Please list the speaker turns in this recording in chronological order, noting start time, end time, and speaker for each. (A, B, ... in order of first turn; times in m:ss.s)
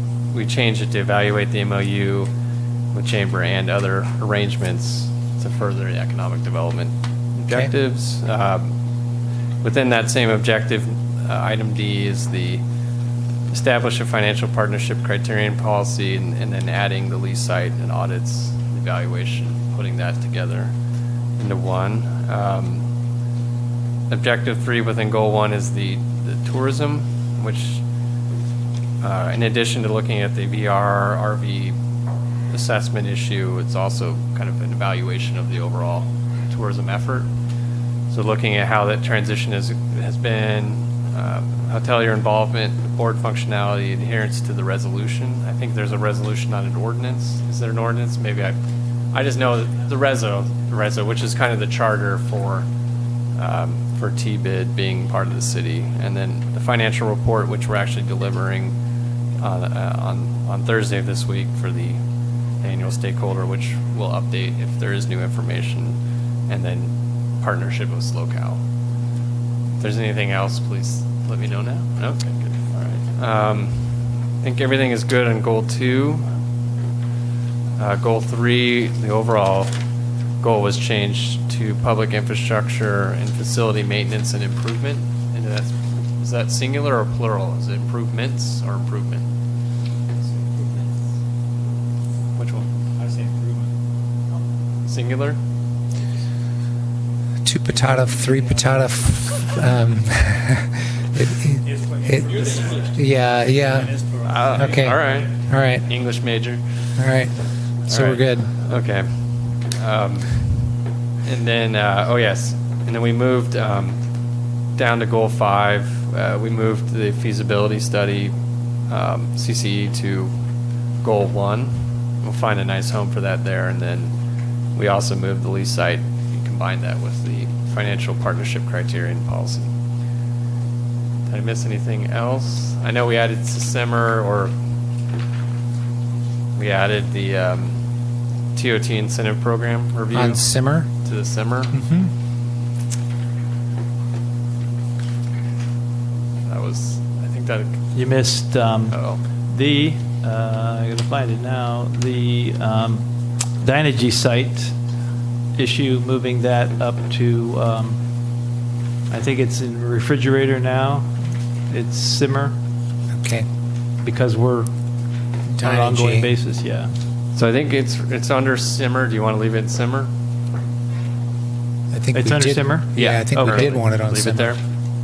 0:00.3-0:02.3 A
0:02.9-0:08.7 A
0:09.6-0:12.6 A
0:13.5-0:20.7 A
0:21.4-0:22.9 A
0:24.1-0:27.8 A
0:29.0-0:31.8 A
0:32.5-0:37.3 A
0:38.1-0:48.6 A
0:49.1-0:52.7 A
0:53.4-0:58.8 A
0:59.4-1:02.0 A
1:02.6-1:06.0 A
1:06.5-1:08.6 A
1:09.8-1:13.9 A
1:14.4-1:16.3 A
1:17.8-1:19.7 A
1:20.4-1:29.2 A
1:30.4-1:30.9 B
1:32.4-1:32.7 A
1:33.0-1:33.7 B
1:34.9-1:35.4 A
1:37.4-1:44.0 C
1:41.8-1:43.0 B
1:43.7-1:44.8 B
1:44.2-1:47.0 A
1:44.6-1:45.9 C
1:47.0-1:47.3 C
1:47.9-1:48.5 C
1:47.9-1:50.6 A
1:51.2-1:54.0 A
1:54.8-1:58.4 A
1:58.9-2:00.3 A
2:01.0-2:04.1 A
2:04.8-2:09.7 A
2:11.3-2:14.5 A
2:16.6-2:17.8 A
2:18.5-2:21.8 A
2:20.1-2:20.9 C
2:21.7-2:22.1 C
2:26.5-2:27.8 A
2:27.9-2:33.0 D
2:28.9-2:29.2 A
2:33.6-2:34.8 D
2:35.6-2:38.0 D
2:39.1-2:41.1 D
2:41.7-2:42.6 D
2:43.1-2:43.5 C
2:44.0-2:44.7 D
2:45.5-2:46.3 C
2:45.6-2:46.9 D
2:47.4-2:50.1 A
2:51.9-2:54.6 C
2:52.1-2:53.7 D
2:53.0-2:54.6 A